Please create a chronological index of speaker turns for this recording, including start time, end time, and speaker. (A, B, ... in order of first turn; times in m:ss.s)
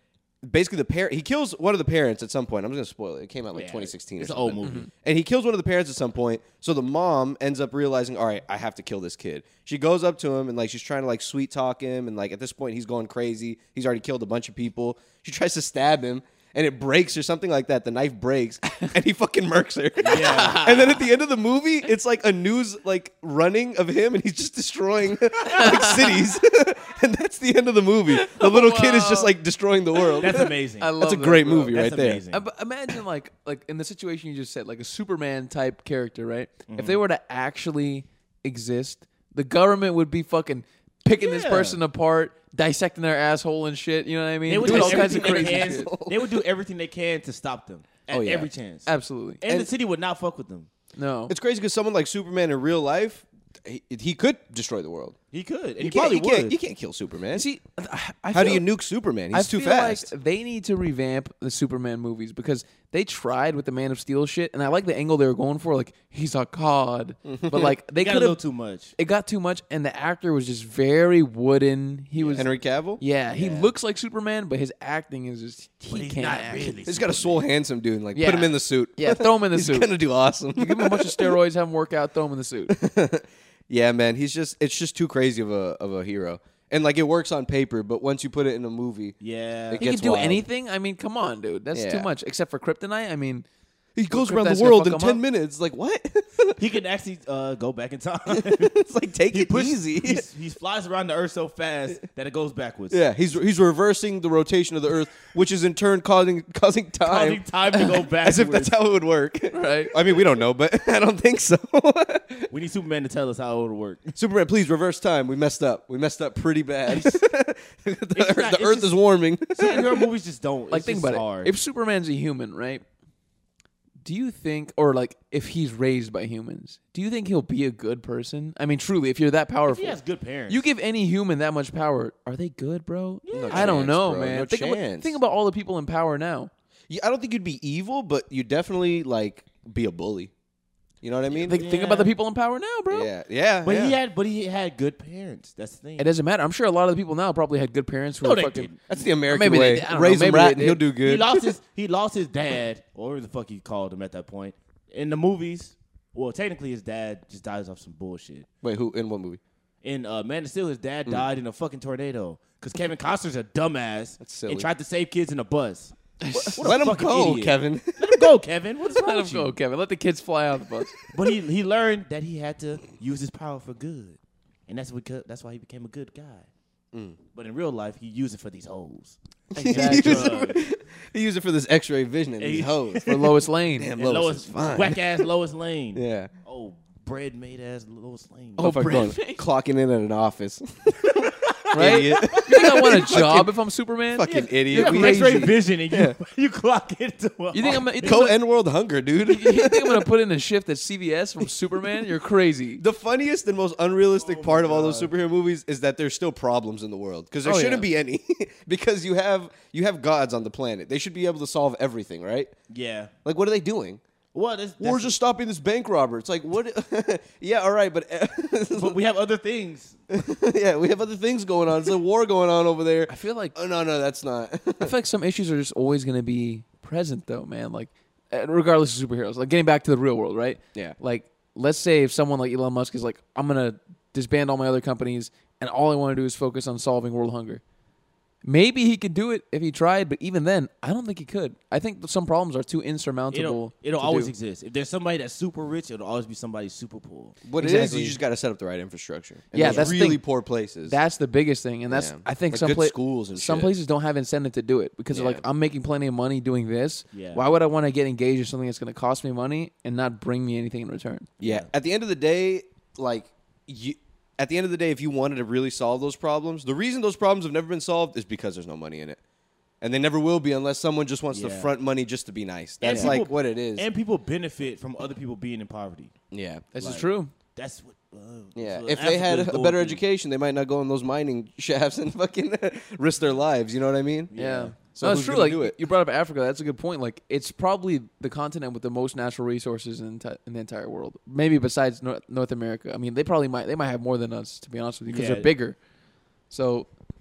0:00.4-0:32.2 A
0:03.5-0:04.9 B
0:04.6-0:04.9 C
0:20.0-0:20.7 B
0:20.1-0:21.0 C
0:25.5-0:26.2 C
0:28.1-0:29.3 C
0:30.0-0:31.8 C
0:30.2-0:31.0 B
0:31.6-0:32.4 B
0:32.3-0:45.9 C
0:36.7-0:37.0 B
0:41.2-0:41.8 B
0:44.5-0:48.9 B
0:44.6-0:46.4 A
0:48.1-0:48.5 A
0:48.8-0:49.4 C
0:49.4-0:50.7 B
0:51.0-0:51.3 C
0:51.3-0:55.2 A
0:55.3-0:56.5 B
0:55.8-0:57.4 A
0:57.3-0:58.6 C
0:58.3-1:00.1 A
0:59.3-1:08.4 C
1:07.2-1:07.8 A
1:08.0-1:08.9 B
1:09.0-1:16.8 C
1:12.2-1:12.5 B
1:12.4-1:13.0 A
1:13.3-1:13.7 B
1:15.9-1:17.4 B
1:16.8-1:21.4 A
1:18.1-1:19.9 C
1:20.5-1:22.7 C
1:22.7-1:29.2 A
1:29.2-1:29.8 B
1:29.7-1:30.4 A
1:29.8-1:33.4 C
1:31.7-1:32.1 A
1:34.0-1:36.6 A
1:34.1-1:35.2 C
1:36.6-1:38.8 B
1:38.3-1:40.2 A
1:39.3-1:43.0 B
1:42.9-1:52.5 A
1:47.0-1:48.8 B
1:49.5-1:49.9 C
1:52.5-1:54.1 B
1:54.2-2:00.1 A
1:56.9-1:57.2 B
1:58.1-1:59.0 B
1:59.6-2:01.5 B
2:00.7-2:02.8 C
2:04.0-2:10.0 C
2:09.7-2:10.7 B
2:10.5-2:16.5 C
2:13.2-2:13.8 B
2:13.3-2:15.2 A
2:16.9-2:20.3 A
2:21.0-2:21.6 A
2:21.3-2:22.1 B
2:21.4-2:23.1 C
2:22.9-2:24.0 A
2:23.6-2:26.1 B
2:26.0-2:28.7 C
2:28.2-2:28.8 B
2:28.9-2:31.5 A
2:29.3-2:30.8 C
2:31.0-2:38.5 B
2:38.6-2:39.4 A
2:39.8-2:46.0 B
2:44.2-2:44.7 A
2:46.2-2:46.6 C
2:46.3-2:48.3 A
2:46.5-2:49.6 B
2:48.9-2:51.0 C
2:51.1-2:54.2 B
2:54.7-2:56.5 B
2:56.9-2:57.2 A
2:57.3-2:59.2 B
2:59.5-3:00.4 C
2:59.5-3:05.3 A
2:59.7-3:00.6 B
3:02.4-3:03.4 B
3:03.0-3:03.9 C
3:04.0-3:08.7 B
3:05.9-3:06.3 A
3:08.6-3:09.4 C
3:08.6-3:13.5 A
3:11.2-3:13.1 B
3:11.7-3:15.5 C
3:14.1-3:16.2 A
3:14.2-3:18.3 B
3:17.5-3:18.4 C
3:18.0-3:20.1 A
3:19.3-3:22.8 C
3:22.8-3:32.5 A
3:24.2-3:25.1 B
3:27.4-3:27.9 C
3:32.7-3:33.1 B
3:33.2-3:34.0 A
3:34.3-3:35.2 B
3:34.8-3:39.0 A
3:38.7-3:40.0 B
3:40.1-3:44.9 A
3:43.1-3:43.5 C
3:44.8-3:57.6 C
3:58.4-4:04.3 C
4:03.3-4:07.9 B
4:07.4-4:11.0 A
4:07.6-4:08.2 C
4:09.5-4:10.2 C
4:09.6-4:09.9 B
4:10.9-4:21.3 C
4:11.9-4:13.7 A
4:15.1-4:15.4 A
4:17.1-4:17.4 B
4:21.4-4:21.7 B
4:21.4-4:29.2 A
4:29.8-4:33.9 A
4:31.3-4:31.7 B
4:32.8-4:36.1 B
4:36.3-4:36.6 A
4:36.7-4:37.3 C
4:36.8-4:40.0 B
4:38.5-4:45.8 A
4:44.3-4:44.8 B
4:44.3-4:55.8 C
4:55.1-4:55.5 B
4:56.5-4:56.9 C